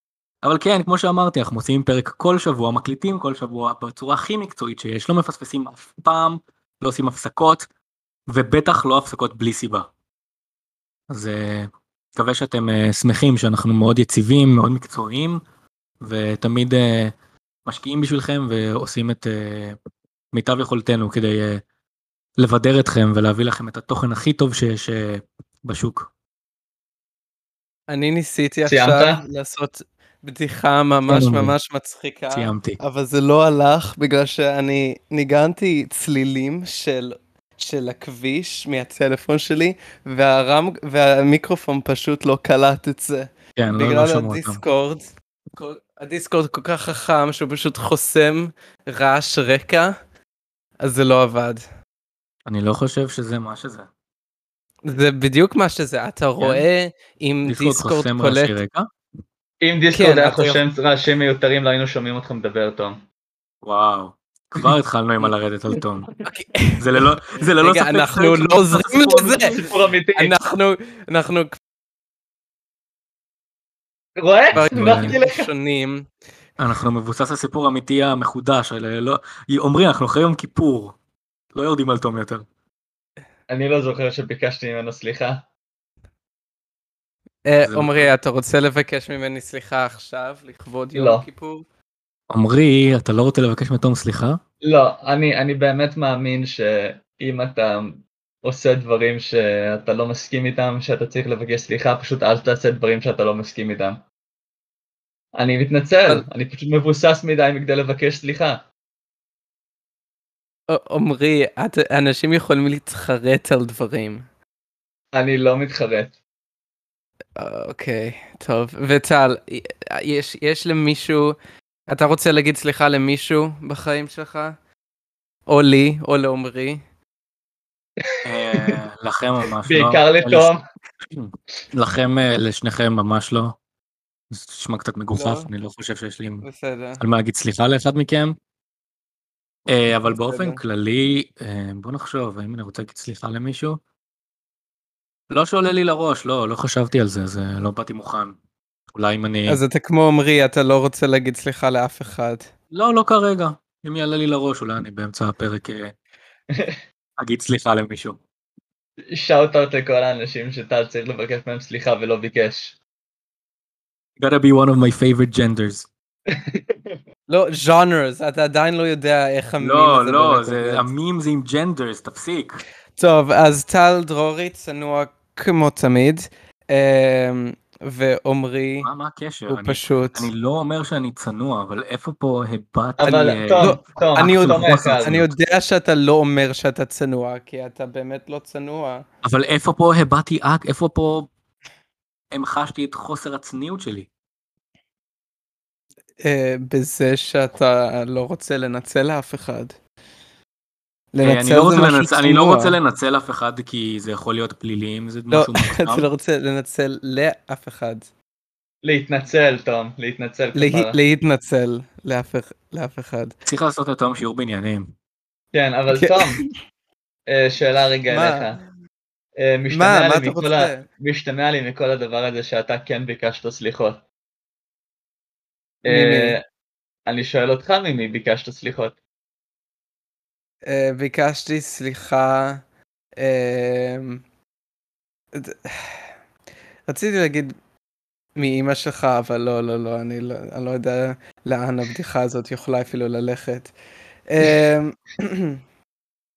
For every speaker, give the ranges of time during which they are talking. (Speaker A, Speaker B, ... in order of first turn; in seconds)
Speaker A: 0.4-7.7, 8.3-9.9, 11.1-15.4, 16.0-17.1, 17.6-19.8, 20.3-21.6, 22.4-26.1, 31.1-31.5, 32.3-32.8, 43.6-44.6, 52.5-53.9, 56.4-56.6, 57.4-58.9, 63.6-66.1, 66.8-69.7, 74.7-75.1, 76.6-81.0, 81.5-82.5, 87.6-88.1, 92.3-94.4, 128.2-133.6, 134.3-136.4, 137.0-138.3, 139.7-143.8, 145.3-148.4, 148.9-149.6, 152.7-155.9, 157.2-158.2, 164.2-165.9, 169.6-172.6, 178.8-185.3, 189.2-191.3, 192.3-194.1, 201.2-206.1, 213.4-214.9
Speaker B: 27.9-49.9, 50.8-51.6, 54.9-58.6, 59.9-60.6, 66.2-67.0, 67.6-69.5, 70.2-71.6, 74.5-76.1, 87.4-91.6, 110.7-114.2, 117.4-121.3, 121.9-124.5, 125.5-126.8, 135.1-135.5, 136.4-137.0, 140.0-140.6, 149.5-152.5, 167.3-170.9, 172.9-178.9, 179.5-180.3, 183.0-189.0, 196.2-199.8, 201.1-202.8, 205.3-208.1, 210.5-213.3, 215.9-216.5, 218.1-218.7, 219.7-220.8, 225.9-226.3, 230.7-232.6, 233.2-234.2, 235.3-236.1, 236.9-237.5, 238.3-243.7, 244.3-245.6
Speaker C: 28.7-29.2, 59.6-63.0, 69.1-70.3, 74.2-75.5, 83.5-85.4, 90.9-91.2, 94.6-104.0, 105.3-108.6, 115.1-116.2, 128.0-128.8, 129.6-130.6, 156.5-156.8, 159.1-162.8, 166.3-167.0, 183.0-185.2, 208.8-211.0, 215.5-216.4, 217.3-218.6, 219.4-224.0, 225.8-226.4, 227.1-229.0